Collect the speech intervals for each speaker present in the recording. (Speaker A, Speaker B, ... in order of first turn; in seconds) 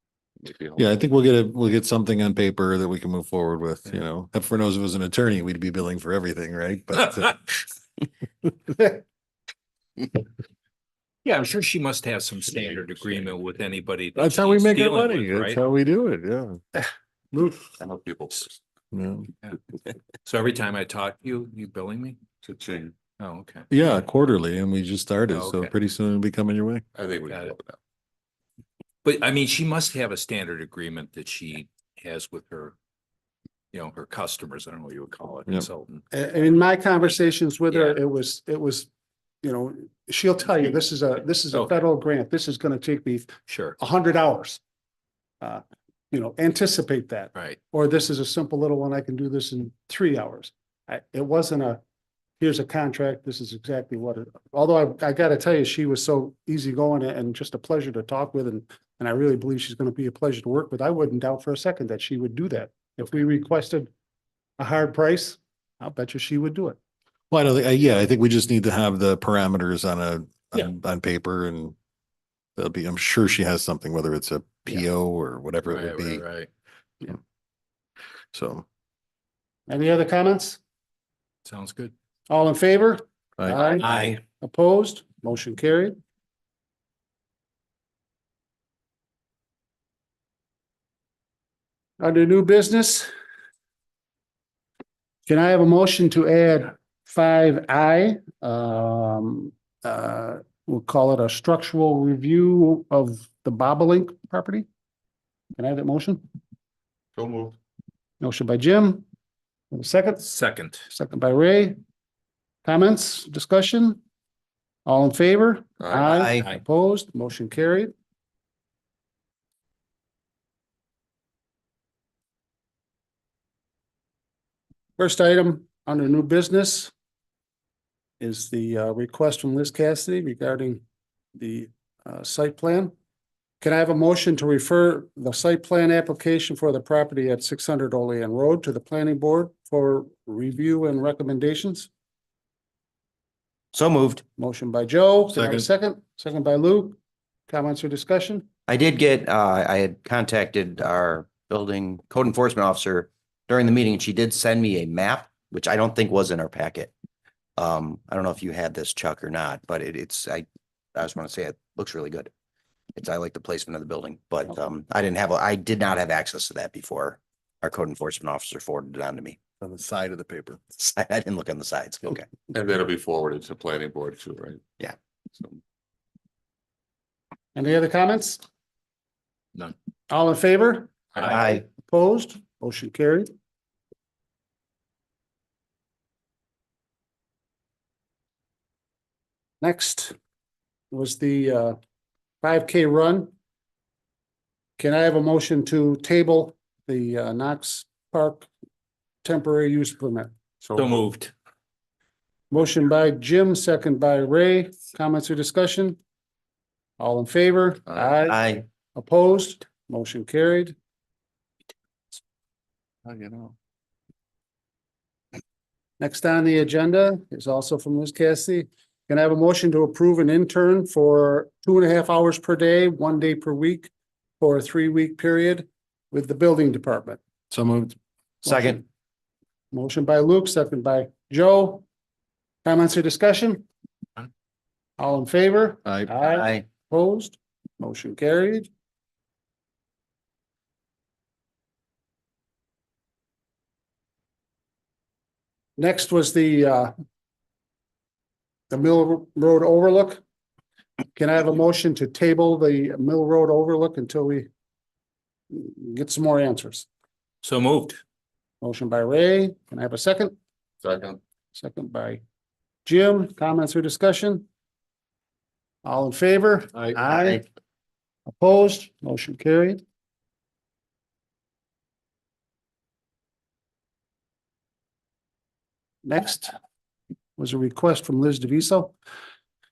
Speaker A: 0.4-0.9, 17.8-18.6, 22.4-23.0, 26.9-27.8, 107.2-107.5, 115.8-116.2, 172.5-174.7, 175.3-175.6, 200.6-201.0, 213.1-213.5, 260.8-261.2
Speaker B: 0.8-7.4, 14.2-16.6, 18.9-19.3, 23.7-26.8, 67.3-71.7, 72.6-76.2, 78.3-78.6, 145.3-145.7, 169.6-170.6, 227.5-227.9, 235.8-236.1
Speaker C: 11.2-15.6, 20.2-22.2, 23.2-23.9, 25.3-25.7, 27.3-27.6, 29.0-32.7, 33.7-36.0, 37.7-38.0, 43.5-43.8, 75.7-76.5, 81.4-81.9, 83.8-84.2, 110.3-110.8, 200.7-201.3, 257.4-258.0
Speaker D: 36.1-38.9, 39.4-44.6, 45.4-51.8, 52.4-63.9, 64.6-66.8, 79.7-80.6, 82.3-85.9, 92.0-93.1, 95.2-104.7, 105.5-106.2, 108.2-109.0, 109.7-110.3, 110.9-111.8, 112.6-114.0, 114.8-117.9, 125.0-126.9, 128.2-130.8, 131.3-132.9, 133.6-141.9, 144.4-148.5, 177.5-178.4, 180.1-183.3, 189.6-190.1, 190.9-191.8, 192.4-193.3, 194.8-198.5, 199.2-200.3, 202.5-206.0, 207.0-210.7, 216.0-227.2, 228.4-228.8, 229.7-231.8, 232.6-233.6, 235.0-238.7, 245.8-246.9, 248.7-250.2, 251.2-254.5, 255.5-256.9, 258.6-260.3, 261.5-262.2, 262.9-264.4, 265.8-267.5, 268.3-269.8, 276.0-276.5, 277.4-278.9
Speaker E: 83.8-84.2, 116.1-116.5, 143.7-144.2, 148.7-156.9, 157.6-162.3, 162.9-169.4, 170.8-172.3, 181.2-181.6, 208.2-208.6, 228.4-228.8, 236.3-236.6